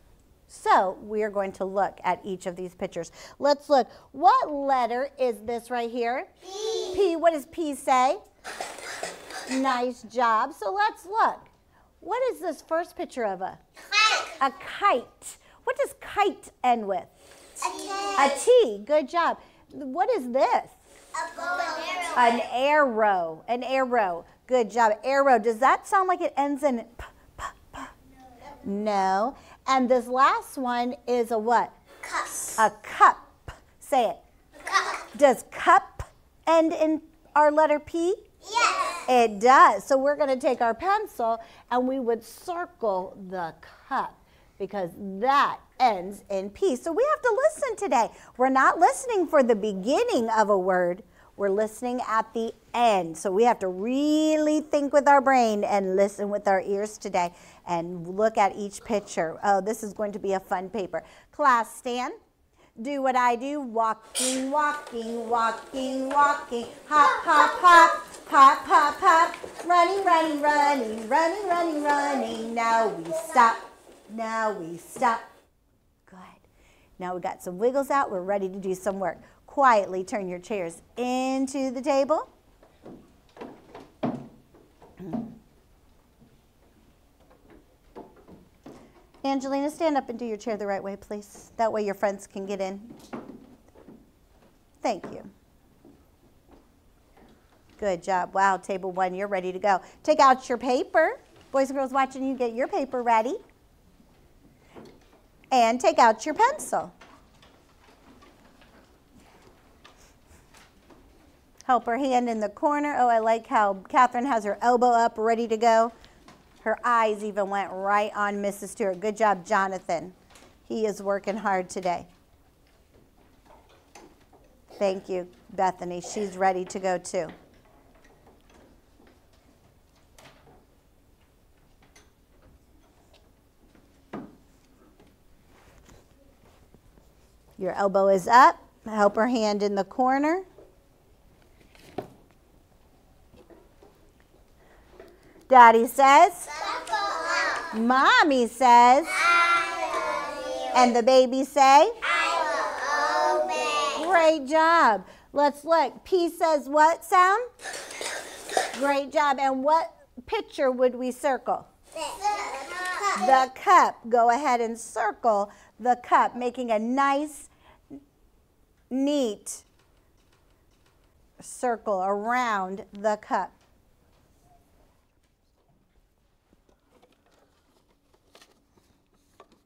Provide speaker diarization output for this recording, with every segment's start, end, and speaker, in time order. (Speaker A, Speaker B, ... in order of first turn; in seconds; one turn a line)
Speaker A: 0.5-6.3
Speaker B: 6.6-6.9
Speaker A: 6.9-8.2
Speaker A: 9.4-11.5
Speaker A: 12.0-13.6
Speaker A: 14.2-17.1
Speaker B: 17.6-18.2
Speaker A: 18.2-20.7
Speaker B: 21.2-22.2
Speaker A: 22.1-27.9
Speaker A: 28.5-31.7
Speaker B: 32.1-32.5
Speaker A: 32.6-34.2
Speaker A: 34.9-38.3
Speaker B: 38.5-39.0
Speaker A: 39.0-62.2
Speaker A: 62.8-75.2
Speaker A: 76.1-76.5
Speaker A: 77.0-82.3
Speaker A: 89.2-92.9
Speaker A: 94.8-95.3
Speaker A: 97.8-103.4
Speaker A: 105.5-106.9
Speaker A: 111.7-115.9
Speaker A: 116.6-120.2
Speaker A: 120.7-122.1
Speaker A: 124.8-127.3
Speaker A: 137.6-140.5
Speaker A: 145.5-146.6
Speaker B: 146.6-147.7
Speaker A: 147.7-149.2
Speaker B: 149.2-150.7
Speaker A: 150.7-152.0
Speaker B: 152.1-154.0
Speaker A: 153.9-157.5
Speaker A: 158.7-161.7
Speaker B: 162.1-163.2
Speaker A: 163.1-167.5
Speaker A: 168.9-169.7
Speaker A: 171.4-173.5